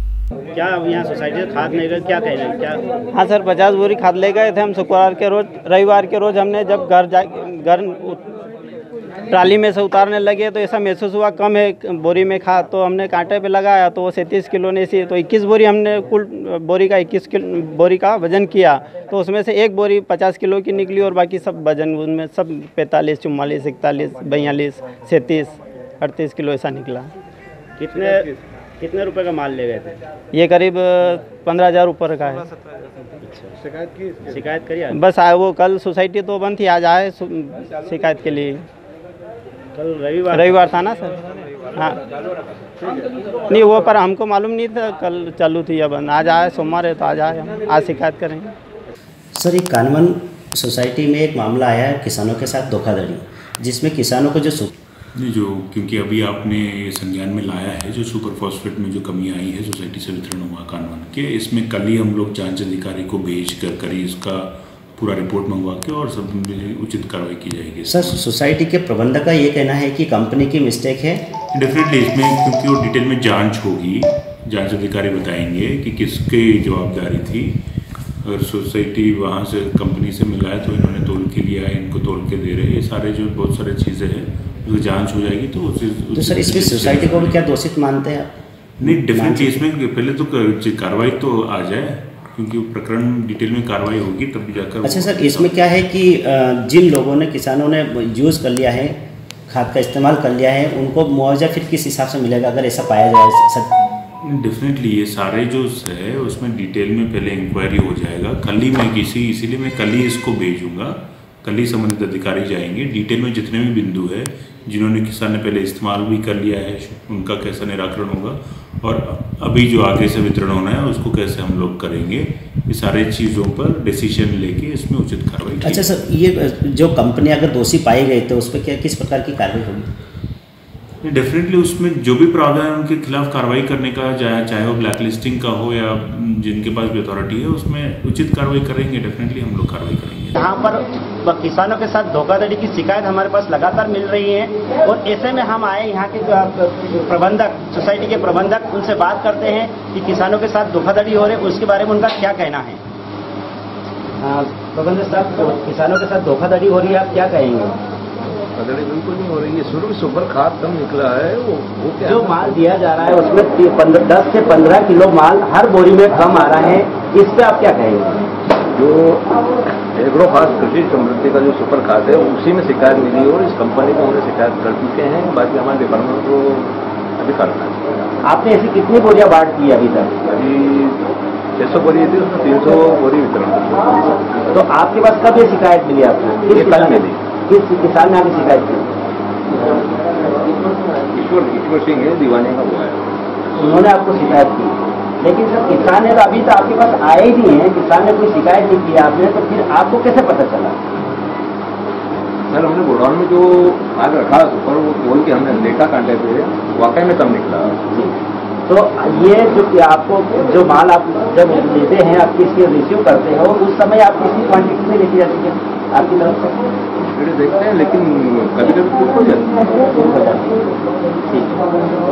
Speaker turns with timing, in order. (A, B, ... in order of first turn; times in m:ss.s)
0:00.5-0:02.8 A
0:03.2-0:08.2 B
0:09.3-0:27.1 B
0:27.8-0:30.0 A
0:30.3-0:32.4 B
0:33.2-0:33.6 A
0:34.2-0:35.0 A
0:34.9-0:38.6 B
0:39.8-0:40.8 A
0:40.4-0:41.2 B
0:43.5-0:48.5 B
0:49.4-0:54.7 C
0:55.2-1:08.2 D
1:07.9-1:11.3 C
1:11.5-1:17.6 D
1:18.2-1:27.5 D
1:26.2-1:29.6 C
1:28.8-1:35.7 D
1:34.8-1:43.7 C
1:44.2-2:05.8 D
2:05.6-2:09.9 C
2:11.0-2:20.4 D
2:20.4-2:32.8 A
2:34.2-2:37.8 A
2:38.6-2:42.7 E
2:42.0-2:48.3 A
2:48.7-2:49.4 E
2:49.9-2:57.8 E
2:58.2-3:00.1 A
3:00.3-3:01.0 E
3:01.6-3:04.3 E
3:04.5-3:08.9 A
3:06.5-3:07.2 E
3:11.1-3:13.1 E
3:13.6-3:20.8 A
3:22.5-3:27.8 E
3:27.9-3:28.1 A
3:28.7-3:36.5 A
3:37.1-3:39.7 E
3:39.9-3:40.5 A
3:41.3-3:41.6 A